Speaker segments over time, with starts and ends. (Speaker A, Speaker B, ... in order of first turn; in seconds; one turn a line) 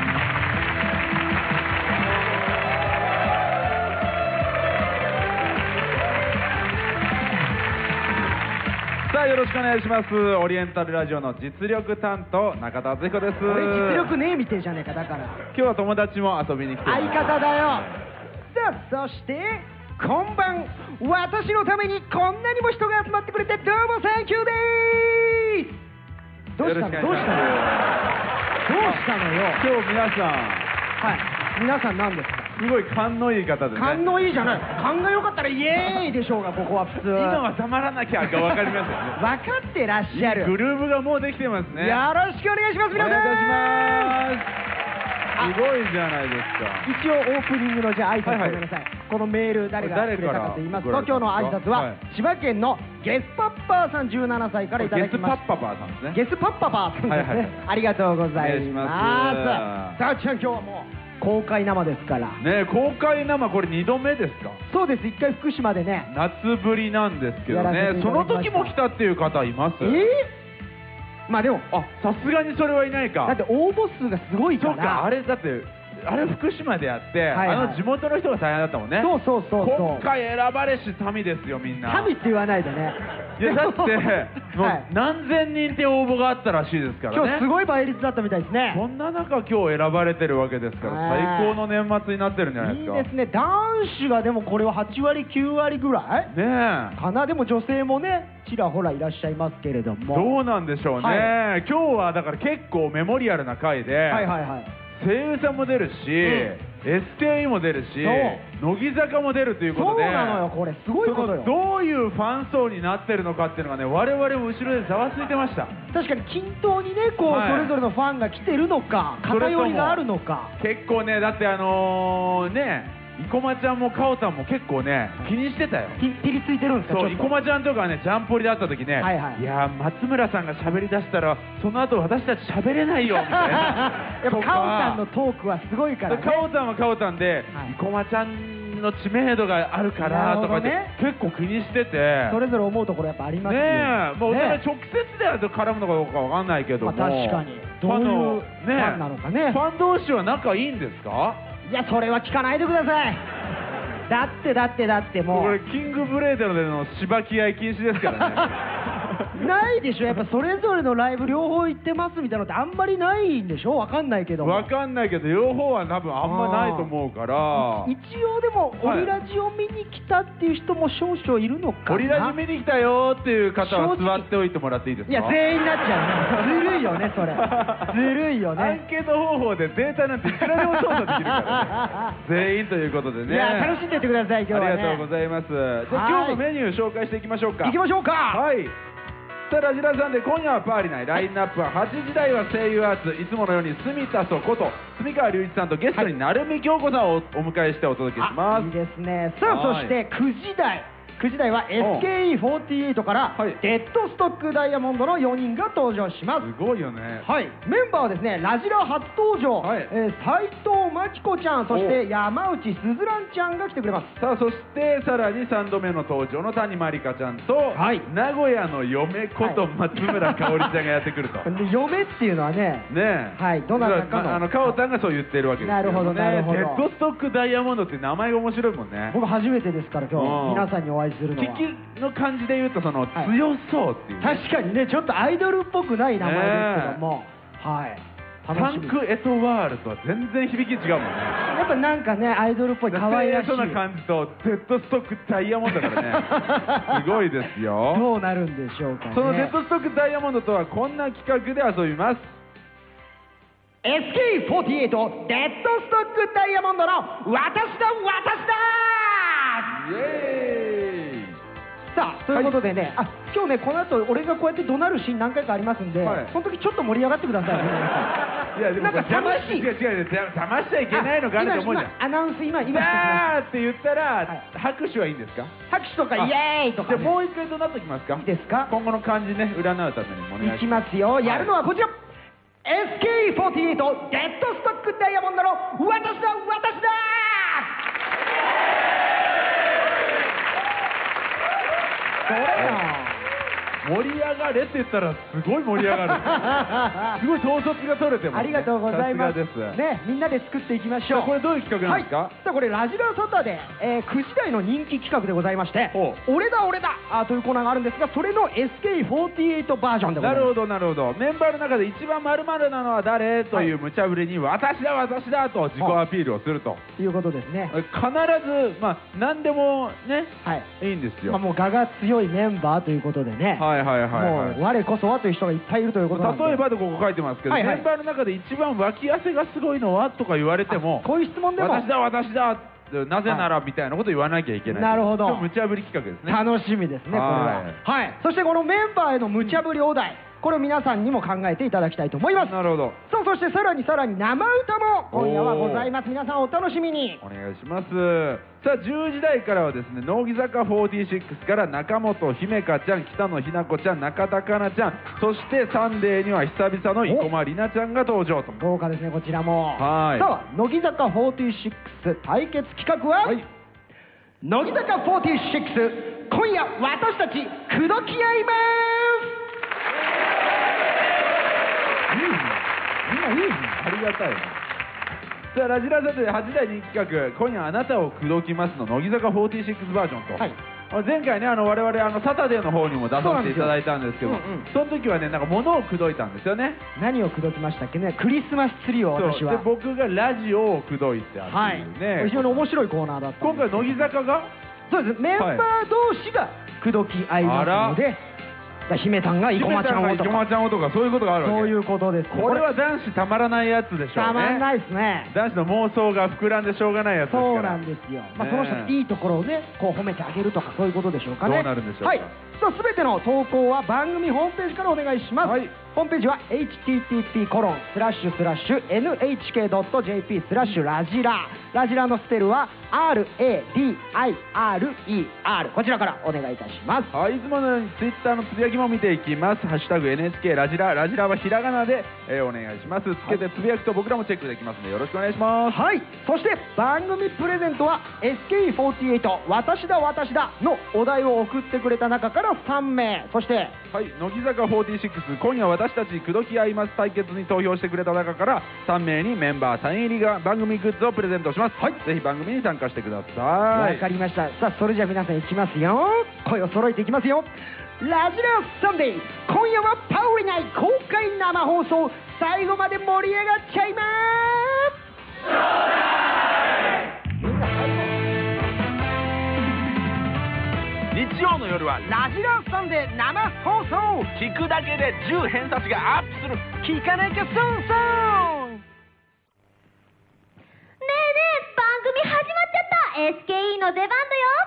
Speaker A: 9.0-14.1
Speaker B: 13.4-15.4
Speaker A: 15.5-17.9
Speaker B: 16.9-17.9
Speaker B: 18.5-25.8
Speaker B: 26.6-27.6
Speaker A: 26.6-28.1
Speaker B: 28.6-29.6
Speaker A: 28.8-30.7
Speaker B: 31.0-32.5
Speaker A: 32.6-34.0
Speaker B: 33.7-37.4
Speaker A: 37.0-39.2
Speaker B: 39.2-40.5
Speaker A: 40.1-42.0
Speaker B: 41.7-44.2
Speaker A: 42.9-44.5
Speaker A: 45.4-46.9
Speaker B: 46.8-55.4
Speaker A: 48.2-48.6
Speaker A: 49.8-52.0
Speaker A: 54.8-56.2
Speaker B: 56.1-62.4
Speaker A: 57.0-57.5
Speaker A: 58.4-60.0
Speaker A: 62.4-64.6
Speaker B: 64.7-66.1
Speaker A: 66.1-70.0
Speaker B: 67.5-68.7
Speaker B: 69.8-70.3
Speaker B: 71.3-71.7
Speaker A: 71.7-73.4
Speaker B: 73.2-75.1
Speaker A: 74.6-82.1
Speaker B: 77.3-77.8
Speaker B: 79.0-80.1
Speaker B: 81.8-84.8
Speaker A: 83.4-87.4
Speaker B: 87.1-88.8
Speaker A: 88.7-93.1
Speaker B: 90.8-91.6
Speaker B: 92.6-96.3
Speaker A: 96.3-97.0
Speaker B: 96.9-100.4
Speaker A: 100.1-104.3
Speaker B: 101.0-101.3
Speaker B: 104.1-104.7
Speaker A: 104.9-110.5
Speaker B: 108.0-108.4
Speaker B: 109.7-111.5
Speaker A: 111.0-115.7
Speaker B: 115.9-120.5
Speaker A: 117.2-117.8
Speaker A: 119.2-120.0
Speaker A: 120.6-126.0
Speaker B: 126.0-127.4
Speaker A: 126.9-135.0
Speaker B: 129.0-129.4
Speaker B: 133.2-136.5
Speaker A: 136.1-142.4
Speaker B: 140.0-140.9
Speaker B: 142.3-144.6
Speaker A: 143.4-151.4
Speaker B: 146.8-149.6
Speaker B: 151.7-153.2
Speaker B: 154.1-155.6
Speaker A: 155.3-158.5
Speaker B: 158.1-158.5
Speaker B: 159.3-164.7
Speaker A: 164.4-167.9
Speaker B: 166.2-166.9
Speaker B: 167.5-172.4
Speaker A: 168.8-169.1
Speaker A: 171.9-175.4
Speaker B: 173.6-174.3
Speaker B: 175.1-178.8
Speaker A: 176.3-178.0
Speaker A: 178.6-183.8
Speaker B: 180.3-182.1
Speaker B: 183.3-185.1
Speaker A: 184.5-187.8
Speaker B: 185.9-186.4
Speaker B: 187.6-188.4
Speaker A: 188.3-188.8
Speaker A: 189.5-198.7
Speaker B: 198.2-206.5
Speaker A: 199.4-200.0
Speaker A: 201.8-202.1
Speaker A: 206.4-207.3
Speaker B: 207.2-214.2
Speaker A: 209.6-209.9
Speaker A: 211.7-212.0
Speaker A: 214.2-221.5
Speaker B: 217.7-218.1
Speaker B: 219.4-220.6
Speaker B: 221.4-224.8
Speaker A: 222.9-229.2
Speaker B: 225.6-226.8
Speaker B: 229.1-231.7
Speaker A: 230.2-230.7
Speaker A: 231.4-234.4
Speaker B: 234.2-239.0
Speaker A: 236.2-237.0
Speaker A: 238.5-241.4
Speaker B: 241.5-243.8
Speaker A: 242.9-246.3
Speaker B: 245.8-246.9
Speaker A: 246.9-248.1
Speaker B: 247.9-249.5
Speaker A: 249.1-252.3
Speaker B: 253.8-259.8
Speaker A: 259.7-261.4
Speaker B: 261.9-268.1
Speaker A: 266.0-266.3
Speaker A: 267.4-267.9
Speaker A: 268.5-271.9
Speaker B: 268.8-269.7
Speaker B: 270.9-273.3
Speaker A: 272.6-275.5
Speaker B: 275.7-277.1
Speaker A: 276.1-281.5
Speaker B: 278.2-278.7
Speaker B: 280.4-281.9
Speaker B: 282.6-287.7
Speaker B: 292.2-293.2
Speaker A: 292.6-292.8
Speaker A: 293.8-296.6
Speaker B: 295.8-297.2
Speaker A: 297.1-299.8
Speaker B: 298.3-310.5
Speaker A: 301.1-302.3
Speaker A: 305.9-306.2
Speaker A: 310.2-316.8
Speaker B: 317.0-317.7
Speaker A: 317.7-321.4
Speaker B: 321.3-326.6
Speaker A: 323.6-324.6
Speaker A: 326.1-336.4
Speaker B: 327.5-327.8
Speaker B: 330.7-331.9
Speaker B: 334.7-335.5
Speaker B: 336.3-347.2
Speaker A: 337.1-337.8
Speaker A: 342.3-343.0
Speaker A: 345.1-345.9
Speaker A: 347.2-358.6
Speaker B: 358.6-363.4
Speaker A: 359.8-360.3
Speaker B: 364.4-369.4
Speaker B: 372.1-373.8
Speaker A: 373.8-374.6
Speaker A: 375.5-386.8
Speaker B: 383.2-384.7
Speaker B: 386.9-389.6
Speaker A: 389.1-392.7
Speaker B: 391.4-394.1
Speaker A: 393.4-394.5
Speaker B: 394.9-398.2
Speaker A: 395.4-395.7
Speaker A: 397.4-398.0
Speaker B: 398.9-400.4
Speaker A: 399.5-401.8
Speaker B: 401.4-402.7
Speaker A: 402.3-404.7
Speaker B: 404.1-405.3
Speaker A: 405.3-407.8
Speaker B: 407.3-427.1
Speaker A: 408.4-408.9
Speaker A: 411.4-412.3
Speaker A: 415.4-415.7
Speaker A: 427.1-435.8
Speaker B: 435.7-443.7
Speaker A: 443.9-454.0
Speaker B: 453.7-457.5
Speaker B: 458.0-464.9
Speaker B: 467.4-468.1
Speaker A: 471.1-472.1
Speaker B: 472.0-474.3
Speaker A: 474.4-476.7
Speaker B: 476.8-478.8
Speaker C: 481.0-484.6